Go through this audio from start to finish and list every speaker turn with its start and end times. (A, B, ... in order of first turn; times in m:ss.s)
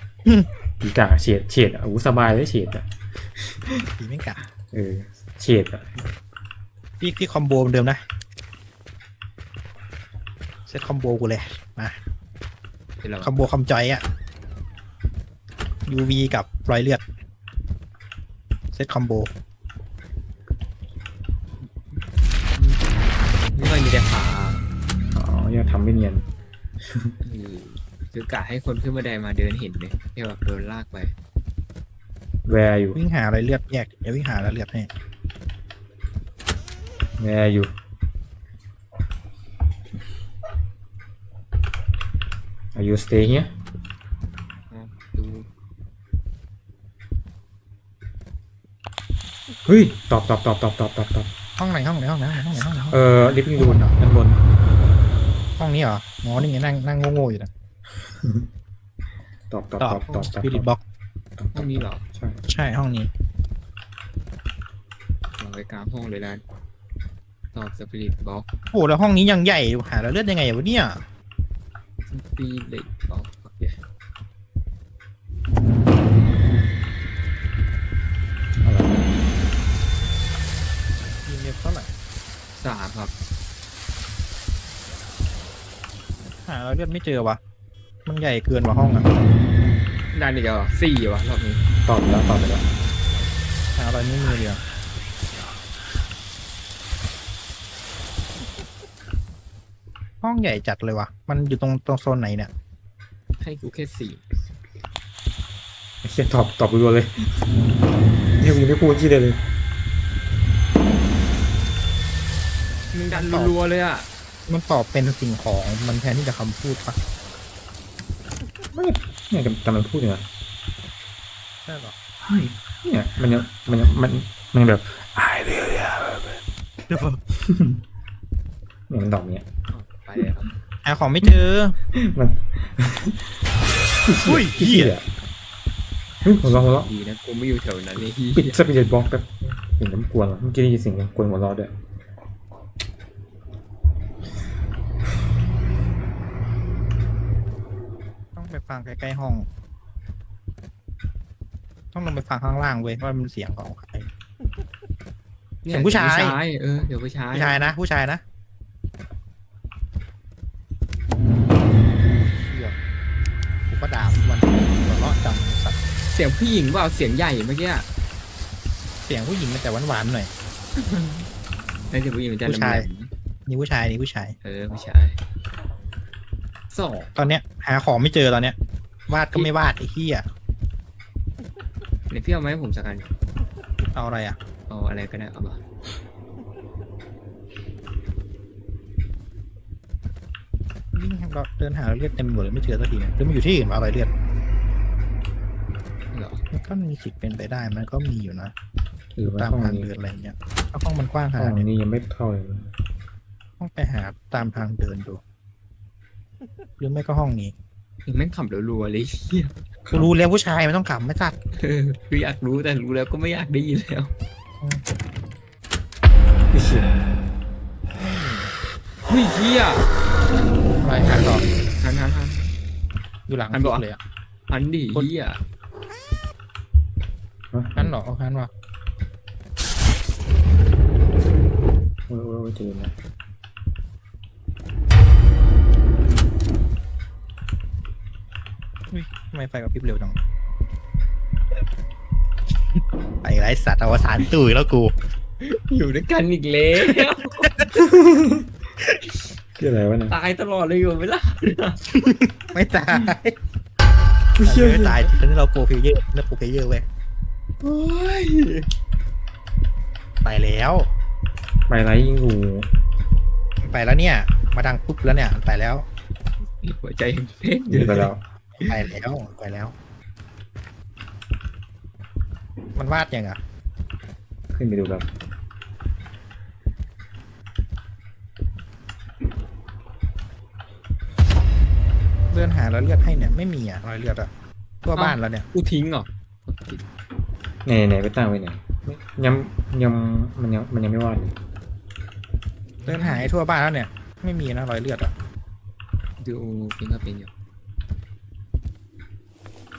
0:00.8-0:03.9 A
0:03.9-0:04.4 B
0:04.7-0:06.1 A
0:07.0-0:08.0 B
0:10.7-0:12.0 B
0:13.0-0:13.3 C
0:13.2-0:14.0 B
0:15.9-0:17.0 B
0:18.7-0:19.3 B
0:21.6-0:22.0 C
0:22.5-0:24.6 C
0:25.1-0:26.2 A
0:26.8-0:27.1 A
0:27.2-0:31.1 C
0:32.4-0:33.0 A
0:32.9-0:34.9 B
0:37.2-0:37.7 A
0:42.7-0:43.5 A
0:44.7-0:45.5 C
0:49.6-0:51.3 A
0:51.6-0:53.0 B
0:52.9-0:54.4 A
0:53.5-0:54.0 B
0:55.6-0:57.5 B
0:58.1-0:58.5 A
0:59.5-1:00.7 A
0:59.8-1:00.8 B
1:01.4-1:02.4 A
1:01.5-1:02.0 C
1:02.5-1:03.1 B
1:05.4-1:06.4 C
1:07.5-1:08.4 C
1:08.7-1:11.0 B
1:12.1-1:13.8 C
1:18.6-1:19.1 A
1:21.2-1:21.9 B
1:22.6-1:23.1 C
1:26.5-1:27.4 B
1:28.1-1:29.1 B
1:30.1-1:31.7 C
1:31.8-1:32.7 A
1:33.8-1:34.6 B
1:40.2-1:42.5 B
1:43.4-1:44.2 C
1:46.0-1:47.5 A
1:48.4-1:49.4 A
1:52.9-1:54.1 C
1:53.1-1:53.6 B
1:54.5-1:57.0 B
1:58.7-2:00.3 A
2:01.7-2:02.0 B
2:02.2-2:06.2 A
2:06.9-2:07.2 B
2:07.4-2:07.8 A
2:08.9-2:09.4 A
2:09.7-2:10.5 C
2:10.8-2:11.8 B
2:11.9-2:13.3 A
2:14.0-2:15.1 A
2:14.2-2:15.0 B
2:16.2-2:16.9 A
2:16.4-2:18.6 C
2:18.4-2:21.7 A
2:28.4-2:29.5 B
2:31.9-2:34.1 B
2:35.6-2:37.7 C
2:35.7-2:36.4 B
2:37.3-2:38.2 B
2:42.1-2:42.8 B
2:43.7-2:45.8 B
2:46.1-2:47.9 C
2:49.1-2:50.3 B
2:50.8-2:51.3 C
2:51.9-2:53.1 C
2:52.4-2:52.9 B
2:53.5-2:54.4 B
2:54.4-2:55.2 C
2:56.7-2:57.3 C
2:57.2-2:58.6 B
2:59.1-3:00.3 B
3:02.1-3:03.1 C
3:04.0-3:04.4 B
3:04.7-3:05.6 C
3:10.9-3:14.1 B
3:16.1-3:16.4 C
3:16.5-3:18.5 B
3:19.2-3:19.9 A
3:19.2-3:21.7 B
3:21.4-3:22.7 A
3:23.6-3:25.2 B
3:26.8-3:27.5 B
3:28.1-3:29.5 C
3:29.9-3:30.1 A
3:29.9-3:31.3 B
3:31.6-3:34.1 C
3:36.5-3:36.9 A
3:38.0-3:38.5 B
3:39.0-3:39.9 C
3:40.8-3:41.5 B
3:41.8-3:42.5 C
3:43.3-3:44.0 B
3:43.5-3:43.8 C
3:44.5-3:45.4 C
3:47.5-3:48.0 A
3:47.8-3:48.5 B
3:52.1-3:52.9 A
3:58.9-4:00.2 B
4:03.2-4:04.9 B
4:05.4-4:07.5 C
4:06.8-4:07.9 B
4:07.8-4:08.5 A
4:09.6-4:10.2 A
4:10.1-4:11.8 C
4:11.9-4:13.4 B
4:14.4-4:15.2 A
4:14.4-4:16.8 B
4:17.6-4:18.7 C
4:20.2-4:20.9 B
4:21.7-4:22.7 A
4:23.6-4:25.8 B
4:26.6-4:28.1 C
4:27.7-4:28.2 A
4:28.6-4:29.7 B
4:32.8-4:33.4 B
4:34.5-4:35.1 A
4:42.3-4:44.3 B
4:44.8-4:45.5 B
4:45.0-4:46.8 C
4:47.6-4:51.4 A
4:52.8-4:53.3 C
4:52.8-4:55.1 B
4:56.2-4:57.3 C